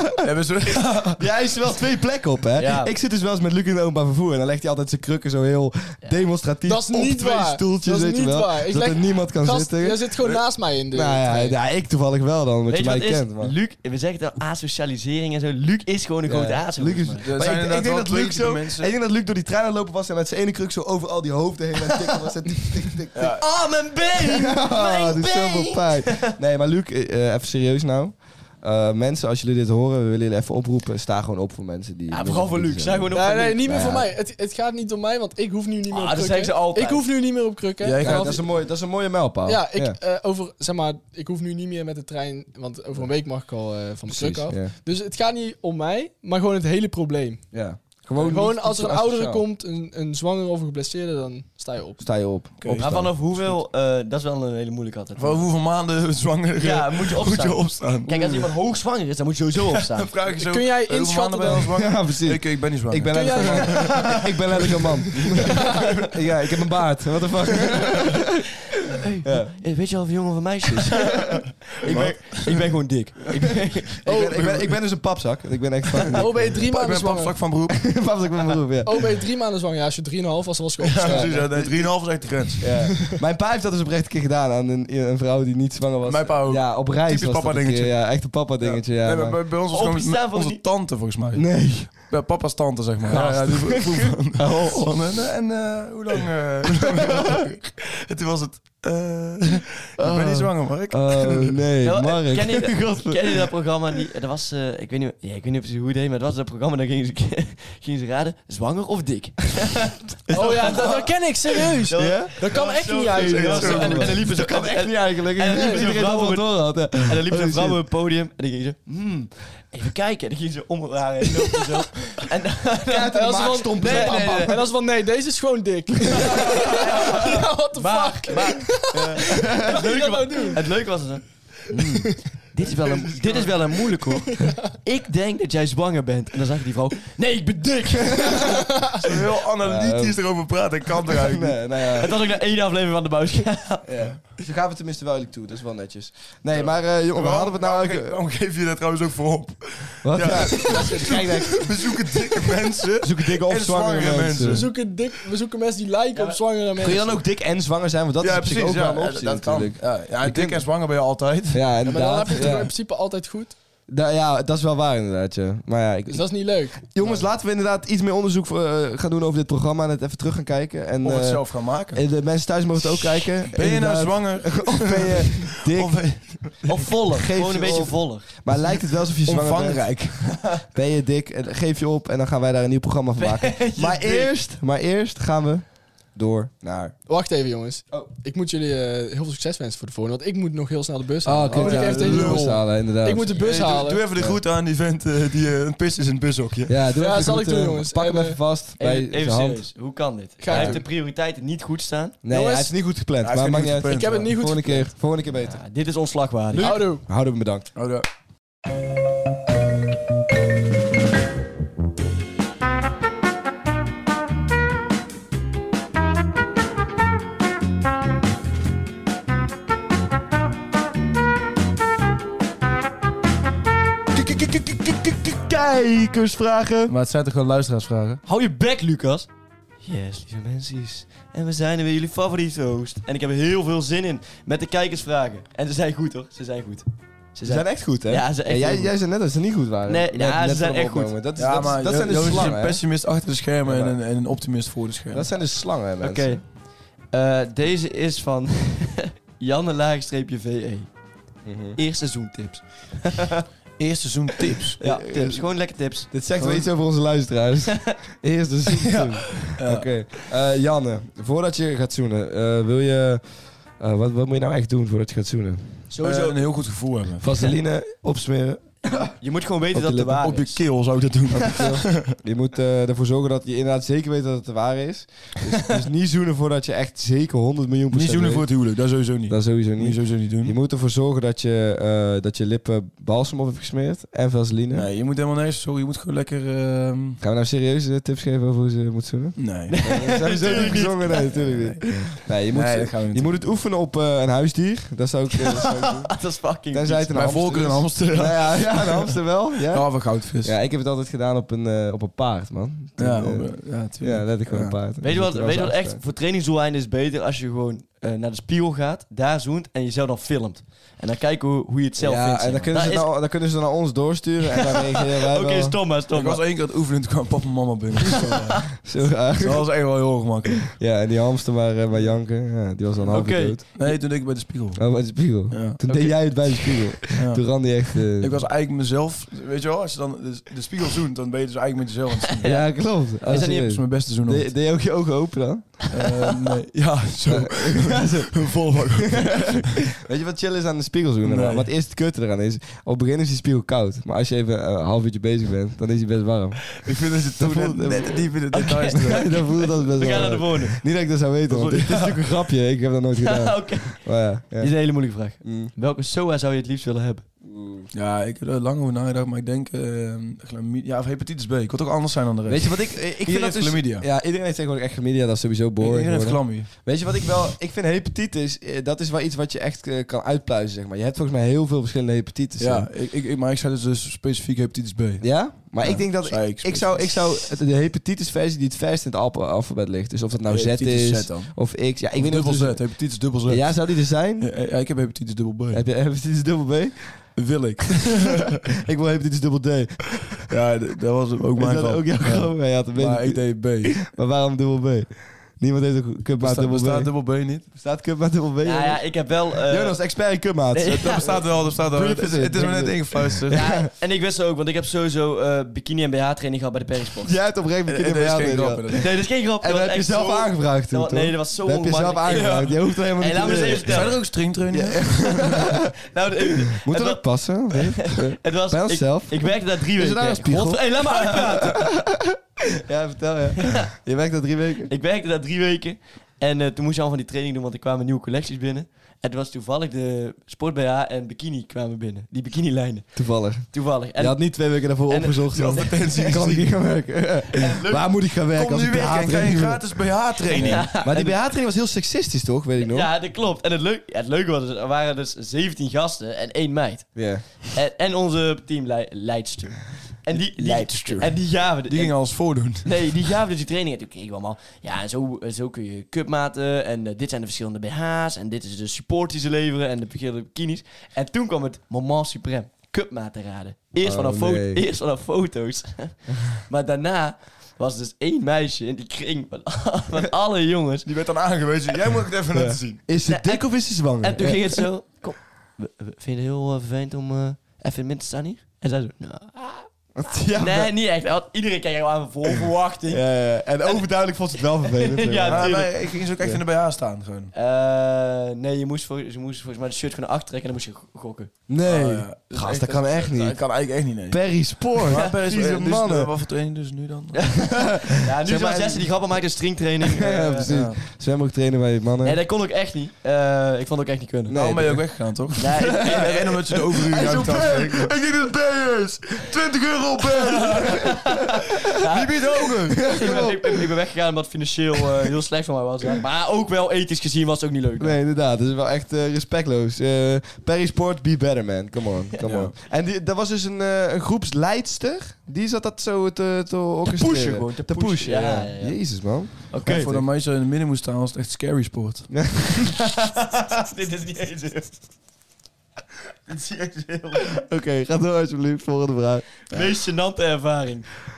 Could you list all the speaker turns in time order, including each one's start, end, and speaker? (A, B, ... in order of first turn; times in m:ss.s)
0:00.2-0:01.2 A
0:01.2-0:10.3 B
0:02.6-0:02.9 C
0:06.6-0:11.6 D
0:10.9-0:13.6 B
0:12.7-0:17.4 C
0:16.3-0:23.4 B
0:17.2-0:18.9 A
0:23.1-0:23.4 A
0:23.2-0:26.3 C
0:24.3-0:34.1 B
0:32.1-0:33.7 C
0:33.1-0:38.4 D
0:35.9-0:37.1 C
0:37.8-0:38.4 A
0:38.0-0:40.0 B
0:39.5-0:47.4 D
0:44.1-0:44.7 B
0:47.5-0:49.4 B
0:48.2-0:52.1 D
0:52.0-0:53.1 B
0:52.6-0:53.5 A
0:52.8-0:55.5 C
0:55.2-0:58.5 A
0:56.6-1:00.2 C
0:59.9-1:04.7 A
1:00.4-1:01.7 D
1:01.5-1:08.3 B
1:03.1-1:04.2 D
1:09.0-1:14.1 C
1:09.2-1:09.6 B
1:11.8-1:12.7 A
1:14.0-1:16.6 B
1:14.0-1:14.6 D
1:16.1-1:17.4 D
1:16.2-1:18.0 A
1:17.7-1:19.0 B
1:18.8-1:21.8 D
1:20.8-1:23.0 A
1:21.0-1:21.9 B
1:22.6-1:29.4 B
1:26.0-1:41.6 A
1:29.7-1:30.6 C
1:31.4-1:32.1 B
1:33.0-1:34.9 B
1:40.0-1:43.2 B
1:41.8-1:51.2 C
1:50.3-1:51.1 B
1:50.3-1:54.2 D
1:51.9-2:04.6 C
1:51.9-1:52.3 B
1:53.2-1:54.1 A
1:53.6-1:57.8 B
1:55.5-1:55.9 D
2:02.9-2:04.6 B
2:03.1-2:10.6 D
2:06.2-2:06.5 B
2:06.4-2:18.8 C
2:08.9-2:09.8 B
2:12.7-2:13.6 A
2:19.0-2:21.6 A
2:19.6-2:20.4 B
2:21.1-2:22.1 B
2:22.0-2:23.9 C
2:23.8-2:28.2 B
2:26.5-2:34.7 A
2:30.0-2:32.2 B
2:33.0-2:34.7 B
2:34.5-2:37.2 D
2:36.8-2:40.7 B
2:38.2-2:41.7 A
2:41.5-2:42.7 B
2:41.8-2:43.6 D
2:43.9-3:07.0 B
2:46.1-2:47.2 D
2:51.0-2:52.1 A
2:52.8-2:56.8 A
2:56.7-2:58.3 C
2:58.7-3:00.6 A
3:03.2-3:04.3 C
3:07.1-3:14.0 D
3:11.2-3:13.3 B
3:11.5-3:12.7 A
3:13.3-3:16.8 A
3:16.7-3:19.7 B
3:17.0-3:18.4 D
3:18.8-3:22.2 C
3:20.4-3:20.8 D
3:20.5-3:20.8 B
3:20.5-3:20.8 A
3:22.2-3:25.6 B
3:22.3-3:22.7 D
3:23.2-3:24.3 A
3:23.9-3:24.9 D
3:25.3-3:26.8 C
3:26.5-3:27.7 B
3:26.6-3:27.0 D
3:27.8-3:28.1 A
3:44.3-3:46.9 B
3:46.9-3:48.2 A
3:48.2-3:49.3 C
3:49.8-3:59.0 C
3:57.4-4:02.8 B
3:59.9-4:01.2 C
4:01.4-4:05.3 A
4:03.6-4:04.0 B
4:05.1-4:06.4 B
4:06.0-4:10.9 C
4:11.4-4:11.8 B
4:11.8-4:13.4 C
4:13.8-4:14.8 A
4:14.8-4:16.2 C
4:14.8-4:23.2 B
4:16.4-4:16.7 A
4:18.8-4:19.9 A
4:23.8-4:25.8 B
4:25.9-4:26.4 C
4:26.0-4:27.3 A
4:27.2-4:29.1 B
4:28.9-4:30.6 C
4:29.7-4:30.3 B
4:30.2-4:32.0 A
4:31.3-4:38.5 B
4:37.9-4:40.6 A
4:39.3-4:44.9 B
4:44.7-4:47.2 A
4:47.2-4:56.2 B
4:49.4-4:49.8 A
4:49.7-4:51.9 C
4:52.5-4:53.4 A
4:55.4-4:57.2 C
4:56.7-5:06.0 B
4:57.1-4:59.1 A
4:59.7-5:00.6 A
5:03.0-5:04.8 A
5:05.0-5:13.1 C
5:12.0-5:15.8 B
5:14.5-5:16.4 C
5:16.1-5:18.8 A
5:18.8-5:19.7 B
5:19.4-5:20.8 A
5:20.8-5:23.6 B
5:23.1-5:24.0 C
5:23.8-5:32.5 A
5:24.8-5:28.4 B
5:32.3-5:33.8 C
5:32.4-5:35.9 B
5:33.2-5:34.5 A
5:35.9-5:39.8 A
5:37.3-5:46.8 B
5:41.2-5:41.7 A
5:46.8-5:49.3 A
5:47.4-5:48.3 B
5:48.5-5:50.9 C
5:49.0-5:54.8 B
5:51.5-5:52.3 C
5:53.2-5:57.3 C
5:55.4-5:55.7 B
5:57.4-5:57.9 B
5:57.9-6:04.1 A
6:02.5-6:12.9 B
6:05.8-6:06.7 A
6:12.6-6:17.5 A
6:15.2-6:24.5 B
6:20.5-6:25.8 A
6:25.7-6:27.5 B
6:27.4-6:28.6 A
6:28.8-6:30.4 B
6:30.5-6:34.0 A
6:31.6-6:43.9 B
6:36.4-6:37.7 A
6:38.6-6:41.5 C
6:40.9-6:43.6 A
6:43.5-6:47.4 C
6:47.2-6:54.2 B
6:47.9-6:49.1 A
6:49.0-6:54.2 C
6:53.8-6:55.7 A
6:54.7-6:55.8 B
6:56.1-7:01.8 C
6:56.8-7:04.9 B
7:04.9-7:16.6 C
7:13.2-7:20.0 B
7:15.5-7:16.8 A
7:17.5-7:18.1 C
7:18.5-7:21.0 A
7:20.5-7:21.4 C
7:20.5-7:23.1 B
7:22.8-7:51.1 C
7:27.2-7:27.6 B
7:30.5-7:33.0 A
7:44.0-7:44.8 B
7:51.0-7:53.0 A
7:52.5-7:54.8 B
7:53.2-7:59.9 C
8:00.2-8:00.9 B
8:00.5-8:04.0 C
8:03.1-8:06.6 B
8:04.6-8:06.1 C
8:05.5-8:07.5 A
8:07.5-8:11.5 C
8:11.7-8:13.6 B
8:11.8-8:17.5 A
8:14.3-8:16.3 B
8:15.1-8:15.3 C
8:17.3-8:20.7 C
8:17.7-8:19.1 B
8:20.0-8:22.4 B
8:20.6-8:21.0 A
8:22.2-8:24.6 C
8:24.5-8:26.3 B
8:24.5-8:31.2 A
8:25.5-8:27.2 C
8:26.9-8:28.3 B
8:30.1-8:31.2 B
8:30.8-8:38.2 C
8:31.9-8:33.2 A
8:32.9-8:33.8 B
8:38.0-8:50.2 B
8:42.4-8:42.7 A
8:47.1-8:50.2 C
8:49.8-8:52.4 A
8:52.4-8:52.7 B
8:52.8-8:55.0 C
8:56.5-8:57.6 C
8:57.6-8:59.9 B
8:59.7-9:01.1 C